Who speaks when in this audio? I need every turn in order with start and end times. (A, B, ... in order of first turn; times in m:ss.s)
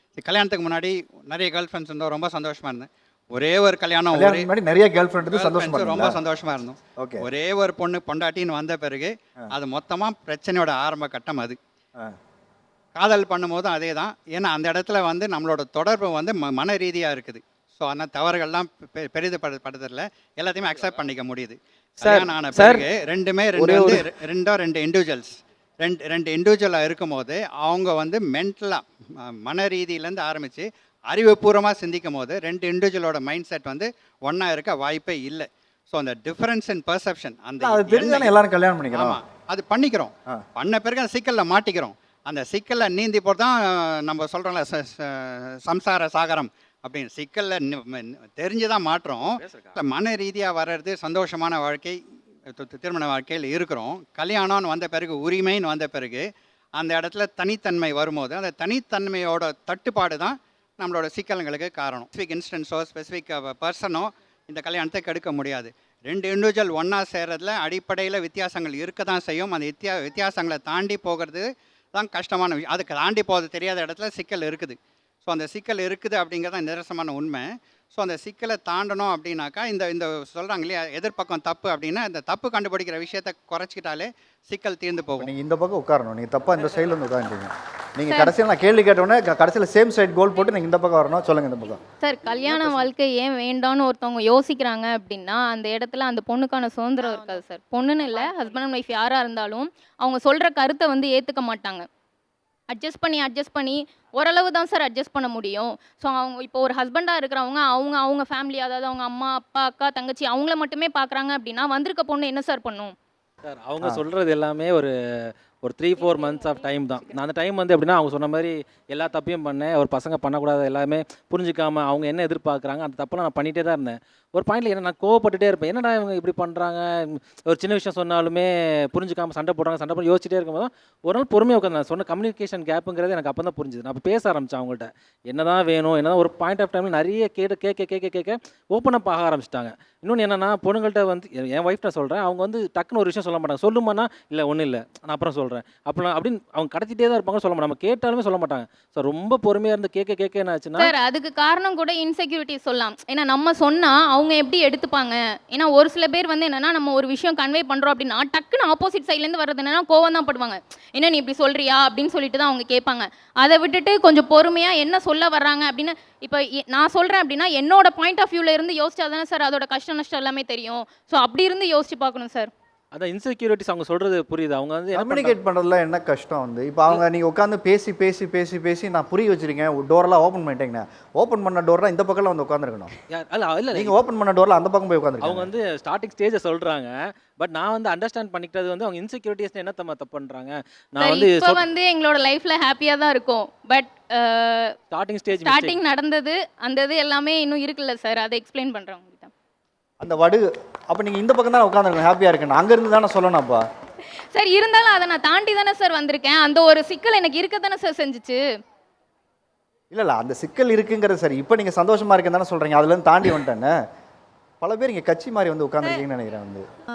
0:00.2-0:04.5 A
0:04.1-0:06.2 B
0:05.3-0:11.6 A
0:07.0-0:07.3 B
0:13.0-0:38.4 A
0:37.6-0:39.2 B
0:38.9-0:52.0 A
0:52.5-0:56.2 A
0:56.8-1:25.3 A
1:25.2-1:31.8 B
1:28.1-1:28.3 C
1:32.0-1:41.9 C
1:42.7-1:53.0 C
1:53.4-2:30.9 D
1:56.0-1:56.6 C
2:30.8-2:52.5 C
2:52.9-2:55.4 D
2:54.9-3:02.9 B
3:03.1-3:04.0 D
3:03.7-3:05.5 B
3:05.2-3:11.7 D
3:11.0-3:14.8 C
3:14.9-3:15.8 D
3:15.4-3:19.3 C
3:20.0-3:23.6 B
3:24.3-3:28.4 C
3:29.9-3:33.7 B
3:34.6-3:36.6 B